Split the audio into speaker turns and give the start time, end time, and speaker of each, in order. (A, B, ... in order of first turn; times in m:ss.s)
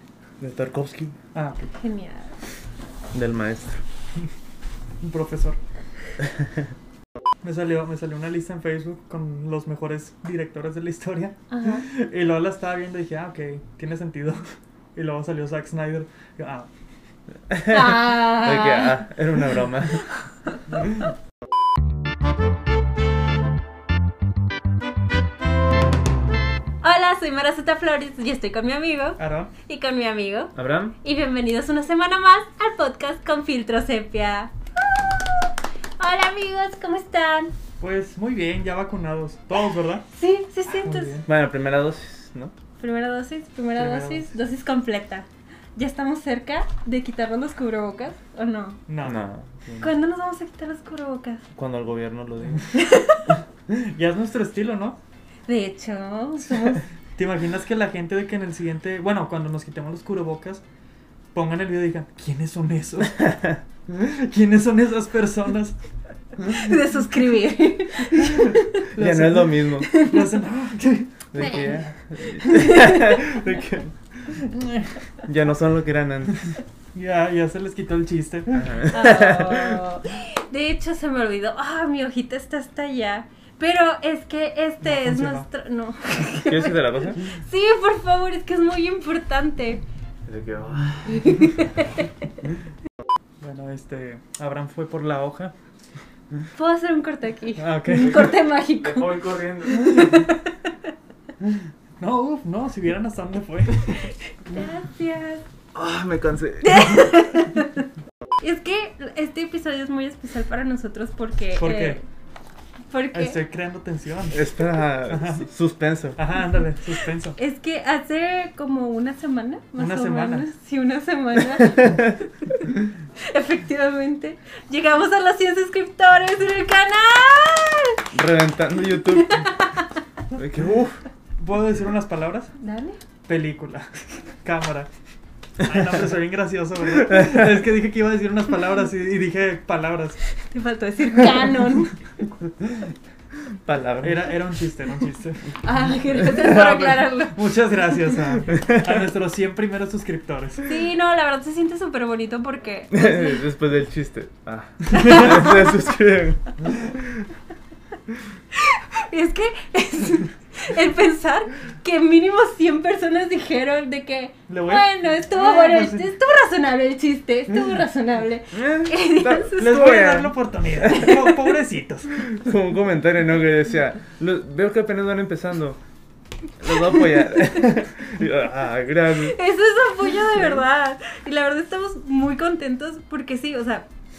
0:00.4-0:01.2 A
0:01.3-0:01.7 B
0:01.7-0:02.4 C
0:03.1-0:03.8 A
0:05.0-0:05.6 B
0:06.2-0:06.6 A
0:07.4-0:16.7 B
0:11.5-0:11.8 C
0:17.5-0:20.1 A
0:17.7-0:19.0 C
0:26.8-0:37.5 C
0:29.2-0:29.5 B
0:30.5-0:30.9 A
0:37.8-0:40.0 B
0:40.1-0:41.2 C
0:40.7-0:41.3 B
0:41.2-0:42.5 A
0:42.8-0:48.8 C
0:43.8-0:44.3 B
0:48.9-0:49.2 B
0:49.0-0:49.9 A
0:49.8-0:51.4 C
0:51.5-0:52.7 A
0:52.7-0:53.3 C
0:53.7-0:55.0 B
0:55.5-0:56.8 C
0:57.2-1:00.6 B
1:01.3-1:03.3 B
1:03.2-1:03.6 A
1:03.9-1:05.8 B
1:06.4-1:06.7 B
1:06.4-1:08.8 C
1:08.1-1:11.6 B
1:08.9-1:09.9 A
1:09.8-1:10.4 C
1:11.3-1:14.4 A
1:11.3-1:13.4 C
1:14.3-1:15.0 B
1:15.2-1:16.5 A
1:16.9-1:18.8 B
1:18.5-1:19.8 A
1:18.9-1:29.8 C
1:24.8-1:25.4 B
1:26.4-1:27.3 A
1:30.2-1:31.5 A
1:31.1-1:32.1 C
1:33.4-1:35.5 B
1:36.5-1:40.5 C
1:37.6-1:38.3 B
1:38.0-1:40.2 A
1:41.4-1:44.1 B
1:44.0-1:45.4 C
1:45.7-1:47.1 A
1:46.6-1:47.9 C
1:48.4-1:52.0 C
1:51.6-1:52.0 B
1:52.9-1:53.4 C
1:53.1-1:55.4 B
1:54.3-1:56.2 A
1:56.2-1:57.4 B
1:57.4-2:02.7 C
1:59.8-2:00.5 B
2:03.2-2:08.0 C
2:08.1-2:09.4 A
2:08.9-2:09.9 C
2:10.3-2:11.0 A
2:11.4-2:12.5 B
2:12.6-2:13.0 C
2:13.2-2:13.9 B
2:14.4-2:14.9 B
2:15.6-2:20.2 B
2:17.1-2:17.4 A
2:20.4-2:21.9 C
2:23.5-2:24.3 A
2:24.0-2:25.5 B
2:25.6-2:28.1 C
2:26.3-2:30.8 B
2:28.5-2:28.9 A
2:30.6-2:33.4 C
2:32.9-2:37.2 A
2:35.2-2:35.6 C
2:38.5-2:49.9 C
2:44.5-2:46.1 B
2:48.5-2:51.1 A
2:49.6-2:52.2 B
2:50.9-2:51.5 C
2:52.1-2:55.8 A
2:56.6-2:59.4 A
2:59.2-3:03.8 C